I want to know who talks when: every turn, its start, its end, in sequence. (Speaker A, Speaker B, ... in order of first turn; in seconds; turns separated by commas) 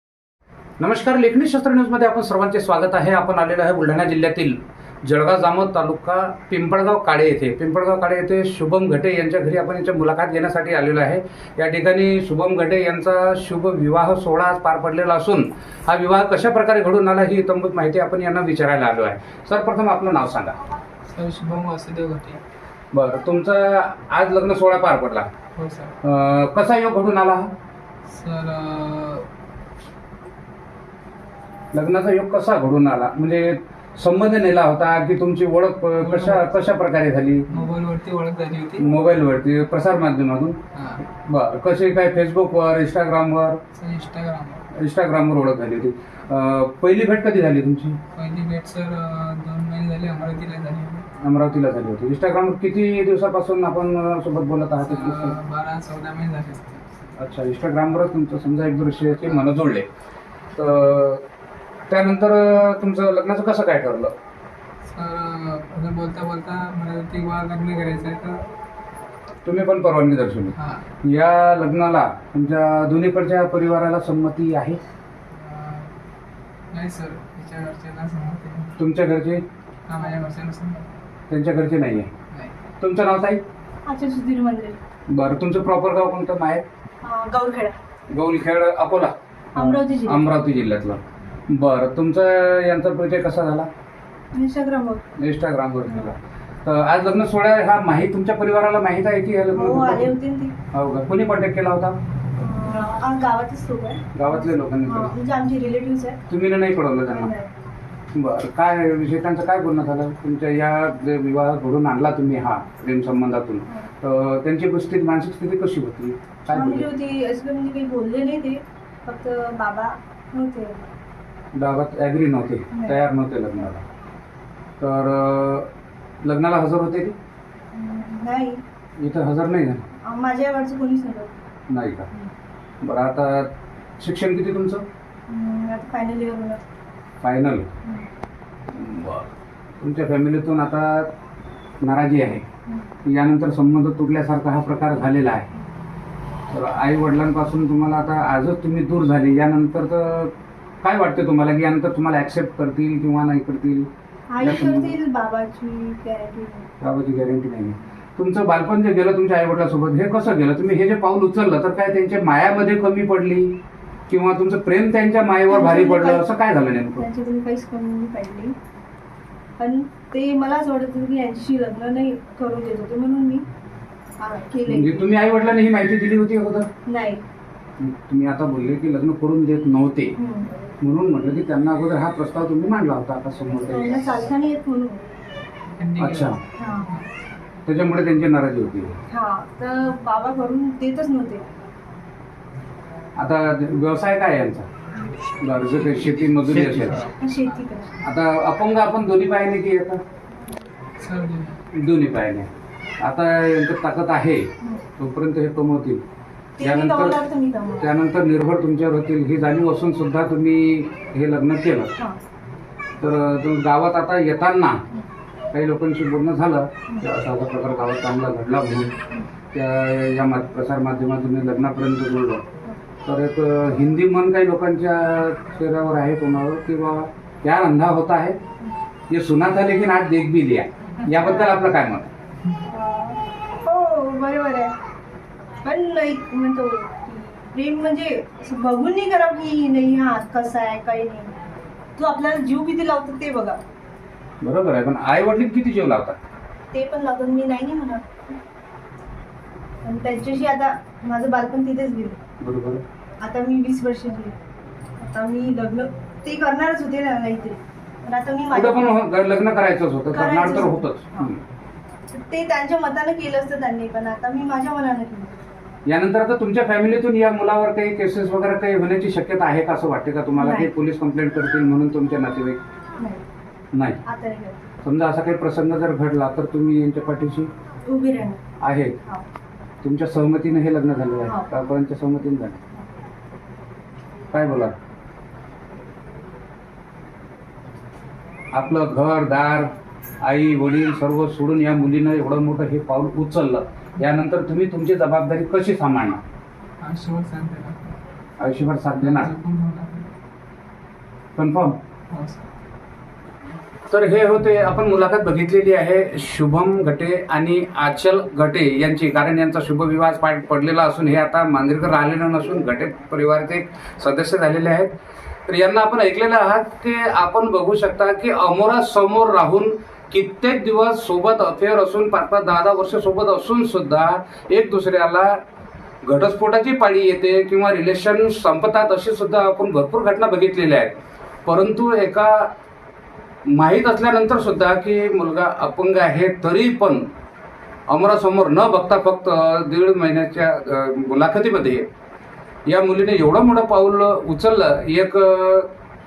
Speaker A: 0.8-20.6, Speaker B: 21.1-22.4, Speaker A: 22.9-25.3, Speaker B: 25.6-25.9, Speaker A: 26.0-27.5, Speaker B: 28.1-29.3, Speaker A: 31.7-37.5, Speaker B: 36.0-36.6, Speaker B: 37.5-38.9, Speaker A: 38.8-40.6, Speaker B: 40.7-41.0, Speaker A: 41.1-43.6, Speaker B: 43.8-44.7, Speaker A: 44.7-48.0, Speaker B: 48.1-51.1, Speaker A: 51.2-55.4, Speaker B: 54.8-57.1, Speaker A: 57.1-59.9, Speaker A: 60.5-61.2, Speaker A: 61.9-64.1, Speaker B: 64.9-68.5, Speaker A: 69.4-74.8, Speaker B: 70.5-70.8, Speaker B: 75.3-75.9, Speaker B: 76.7-78.8, Speaker A: 78.8-79.4, Speaker B: 79.9-80.9, Speaker A: 81.3-82.1, Speaker B: 82.3-82.6, Speaker A: 82.8-83.4, Speaker C: 83.8-84.8, Speaker A: 85.1-86.6, Speaker C: 87.0-87.8, Speaker A: 88.1-93.7, Speaker C: 89.5-90.2, Speaker C: 94.3-95.0, Speaker A: 95.2-100.1, Speaker C: 99.5-100.5, Speaker A: 100.7-102.0, Speaker C: 102.4-106.2, Speaker A: 104.1-105.1, Speaker A: 106.3-107.3, Speaker C: 107.1-107.5, Speaker A: 108.1-116.9, Speaker C: 116.5-120.9, Speaker A: 121.5-123.8, Speaker C: 122.7-123.0, Speaker A: 124.8-125.7, Speaker A: 126.2-127.2, Speaker C: 127.7-128.6, Speaker A: 129.0-129.8, Speaker C: 130.0-131.3, Speaker A: 131.7-132.1, Speaker A: 132.8-134.8, Speaker C: 135.3-136.6, Speaker A: 137.2-137.7, Speaker A: 138.7-141.1, Speaker A: 141.8-142.4, Speaker A: 143.0-145.5, Speaker A: 146.5-154.9, Speaker C: 154.3-156.7, Speaker A: 156.8-163.6, Speaker A: 164.1-167.0, Speaker C: 165.5-166.2, Speaker C: 167.0-168.5, Speaker C: 169.6-173.4, Speaker C: 174.2-175.1, Speaker A: 174.7-176.7, Speaker C: 176.8-177.2, Speaker A: 177.8-180.2, Speaker C: 180.2-180.5, Speaker A: 180.8-184.0, Speaker C: 183.7-185.0, Speaker B: 185.8-187.1, Speaker A: 186.0-186.4, Speaker C: 186.5-186.9, Speaker A: 187.7-189.0, Speaker C: 189.1-191.4, Speaker A: 193.2-194.7, Speaker A: 195.4-197.1, Speaker B: 195.5-197.6, Speaker C: 197.2-197.9, Speaker A: 198.0-200.0, Speaker B: 201.0-201.6, Speaker A: 201.7-206.0, Speaker C: 206.6-207.9, Speaker A: 206.6-207.2, Speaker A: 207.8-211.9, Speaker A: 213.0-214.8, Speaker A: 215.5-218.9, Speaker A: 219.5-222.4, Speaker A: 223.0-228.4, Speaker A: 229.1-232.1, Speaker C: 231.0-231.6, Speaker C: 232.6-234.8, Speaker C: 235.6-241.4, Speaker C: 241.9-243.6, Speaker A: 244.4-246.2, Speaker C: 246.7-248.2, Speaker C: 249.8-252.2, Speaker A: 252.4-252.8, Speaker C: 253.2-254.4, Speaker C: 255.0-258.9, Speaker A: 258.5-261.4, Speaker C: 260.1-261.3, Speaker C: 262.1-265.4, Speaker A: 265.9-272.6, Speaker C: 270.4-270.7, Speaker A: 273.7-274.0, Speaker C: 274.1-274.7, Speaker A: 274.8-277.5, Speaker C: 277.8-278.4, Speaker A: 278.6-279.0, Speaker A: 279.8-282.6, Speaker A: 284.3-284.8, Speaker A: 288.5-296.2, Speaker B: 296.8-298.0, Speaker A: 298.4-299.3, Speaker B: 299.0-300.1, Speaker A: 301.4-301.8, Speaker B: 302.1-302.5, Speaker A: 303.9-314.9, Speaker A: 315.5-325.4, Speaker A: 326.0-332.5, Speaker A: 333.5-337.0, Speaker A: 337.9-341.9, Speaker A: 342.6-345.7